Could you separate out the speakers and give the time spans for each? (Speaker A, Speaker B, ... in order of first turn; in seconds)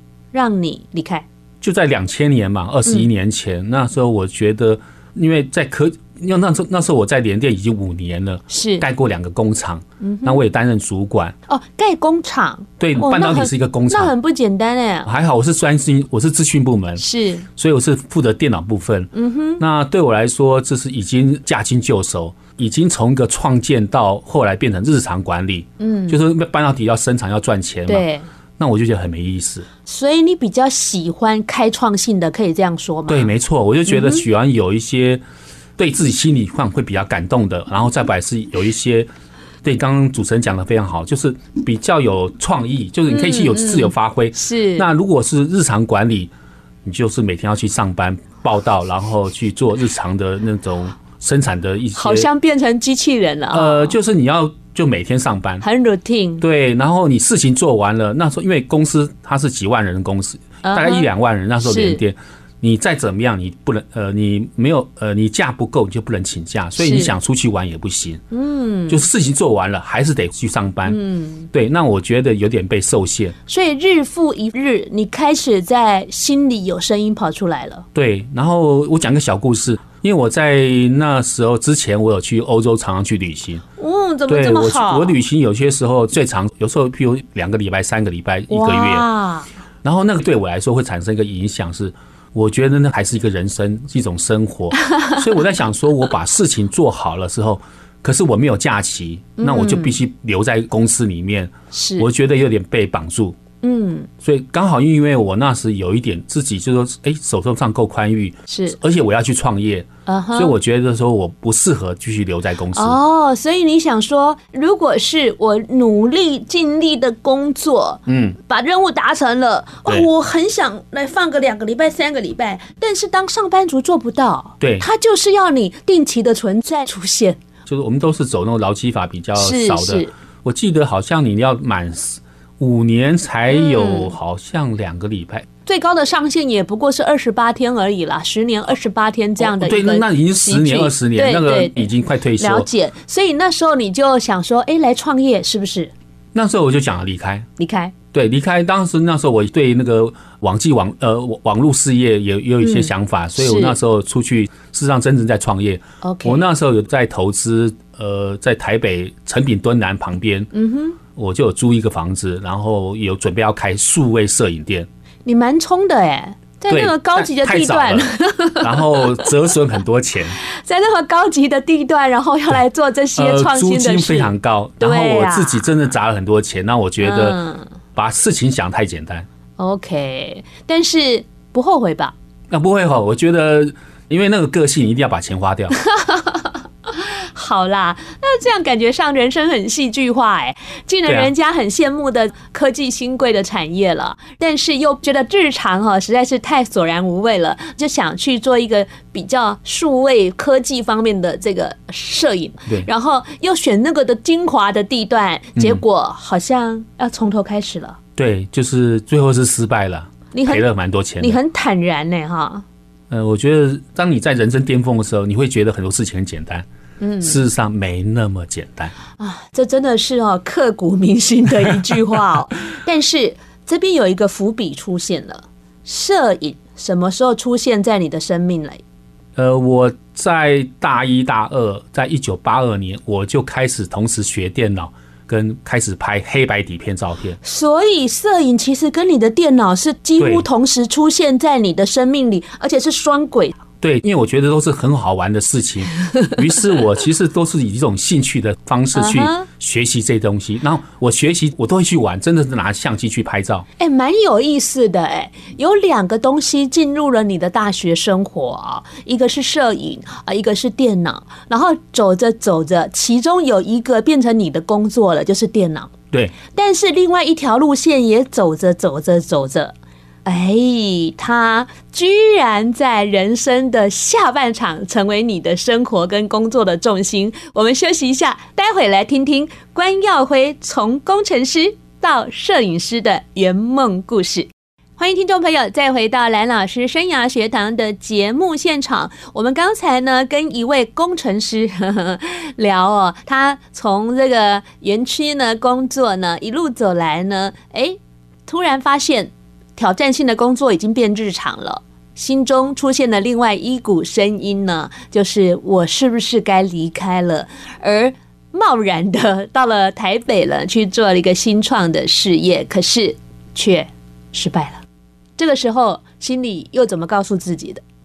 Speaker A: 0.3-1.2, 8.5-8.8, 10.0-10.4, 11.5-15.1, 17.0-17.4, 19.1-19.6, 25.8-26.2, 27.9-28.3, 29.9-33.3, 33.9-34.2, 43.1-44.9, 51.9-54.0, 55.6-56.4, 60.6-61.1, 61.6-62.0, 66.8-67.1, 68.3-69.0, 70.8-71.5, 73.5-77.8, 83.8-85.2, 88.5-89.5, 99.4-100.0, 101.7-102.0, 103.6-104.1, 108.5-108.8, 110.0-110.5, 112.7-127.4, 129.4-130.1, 133.5-134.1, 135.7-145.9, 147.6-147.9, 152.6-153.8, 156.0-156.4, 160.5-161.0, 165.2-169.3, 170.4-175.7, 177.0-177.7, 179.6-182.1, 185.8-208.0, 210.3-210.6, 211.2-212.6, 217.0-217.4, 219.2-228.8, 237.4-243.6, 246.0-246.3, 248.9-249.5, 253.8-269.7, 270.2-314.8, 315.4-317.8
Speaker B: 1.6-11.3, 12.8-14.1, 15.0-17.0, 17.5-28.1, 28.6-29.7, 33.1-35.2, 35.8-39.1, 39.6-46.3, 46.8-52.3, 53.5-55.6, 56.4-68.2, 68.9-71.0, 71.5-73.3, 77.9-83.6, 84.3-89.0, 89.8-103.4, 104.2-113.0, 118.1-118.4, 124.6-124.9, 127.7-135.5, 139.4-142.7, 146.3-147.5, 148.1-160.5, 161.1-164.9, 166.7-168.1, 168.6-170.4, 173.2-177.4, 177.9-179.3, 182.5-185.8, 191.1-191.3, 205.6-205.8, 208.2-211.4, 213.1-216.7, 217.2-218.9, 229.3-237.4, 240.2-240.4, 243.8-253.6